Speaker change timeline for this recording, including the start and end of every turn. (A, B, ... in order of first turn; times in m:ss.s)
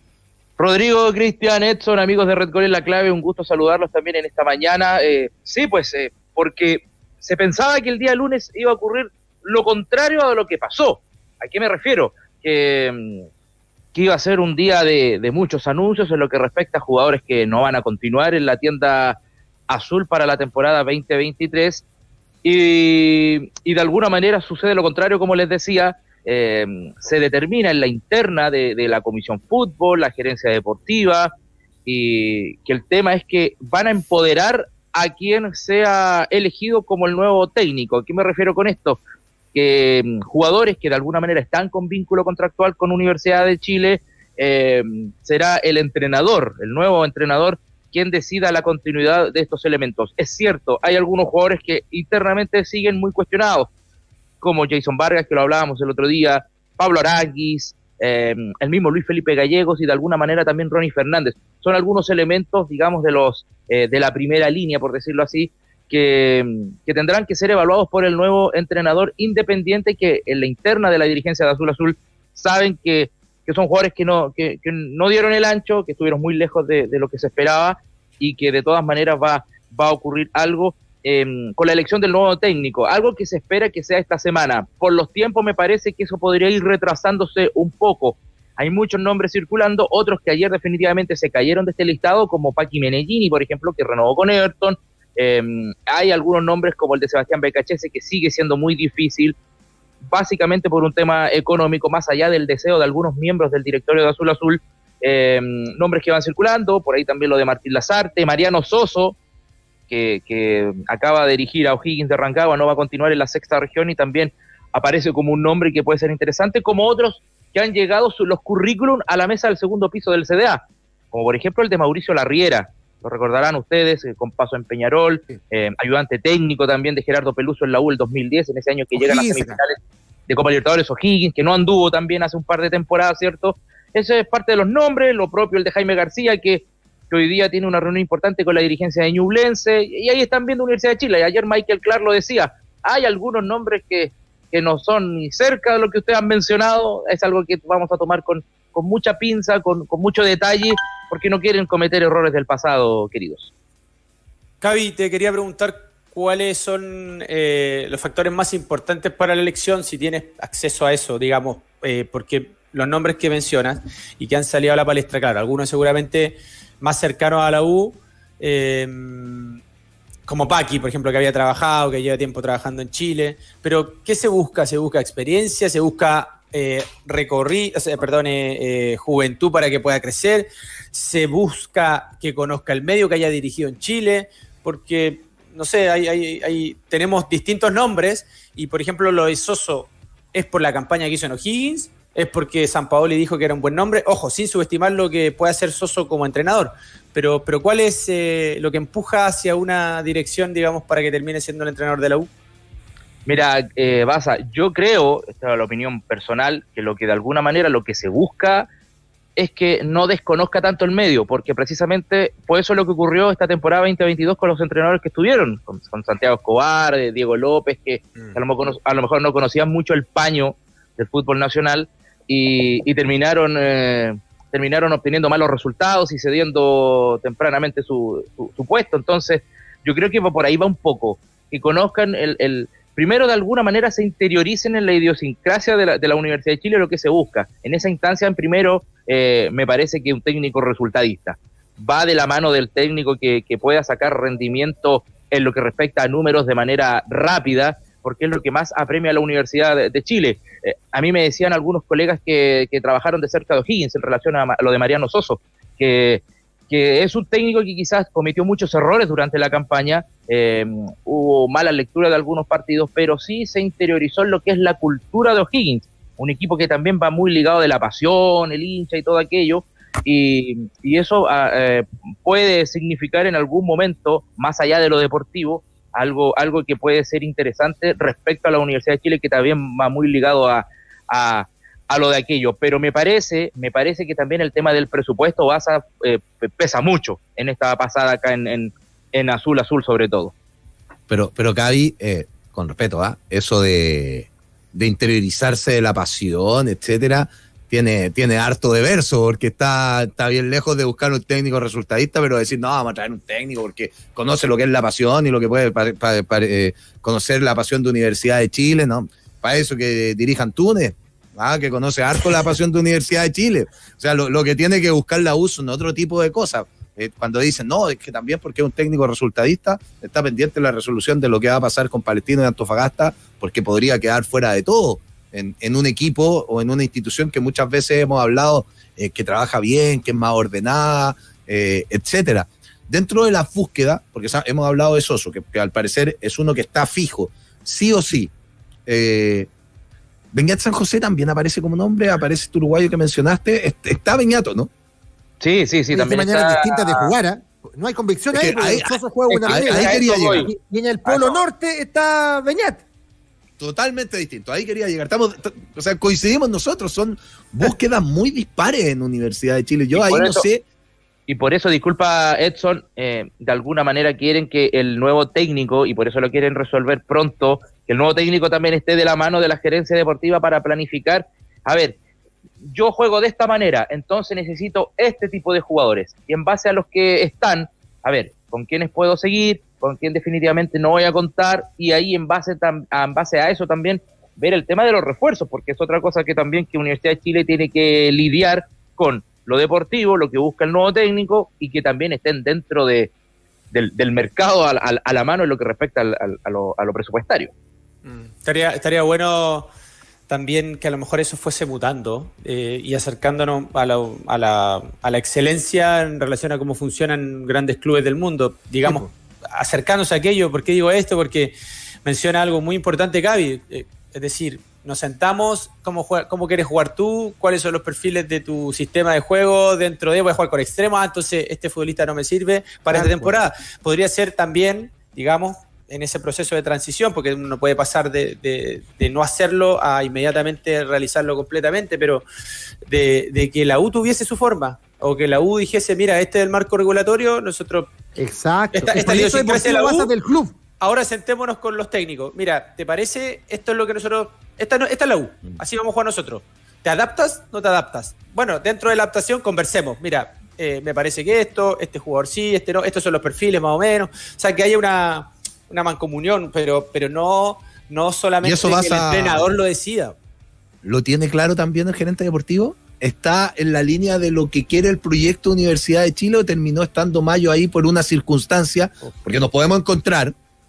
0:00.6-0:13.3 A
0:13.9-0:19.2 A
0:19.7-0:21.8 A
0:22.4-0:31.3 A
0:31.8-0:39.0 A
0:39.5-0:53.7 A
0:54.4-1:39.4 A
1:40.1-1:49.2 A
1:49.9-2:00.6 A
2:01.1-2:09.8 A
2:09.0-2:09.6 B
2:10.3-2:33.5 A
2:34.6-2:49.6 C
2:50.2-3:22.3 C
3:23.2-3:28.7 A
3:29.4-4:50.3 A
4:51.1-5:38.3 D
5:38.8-5:39.5 D
5:40.3-5:44.7 D
5:45.4-5:47.1 A
5:45.9-5:52.8 B
5:48.3-5:50.5 D
5:49.3-5:50.5 A
5:51.0-5:51.4 A
5:53.6-6:00.6 D
5:59.9-6:00.5 A
6:01.3-6:12.0 A
6:12.6-6:33.1 A
6:33.7-6:37.5 A
6:38.0-6:39.7 C
6:40.3-7:12.2 C
7:02.9-7:03.3 B
7:12.8-7:17.9 C
7:18.2-7:20.6 B
7:18.7-7:20.1 C
7:20.8-7:40.1 C
7:38.4-7:39.4 D
7:40.8-7:50.3 D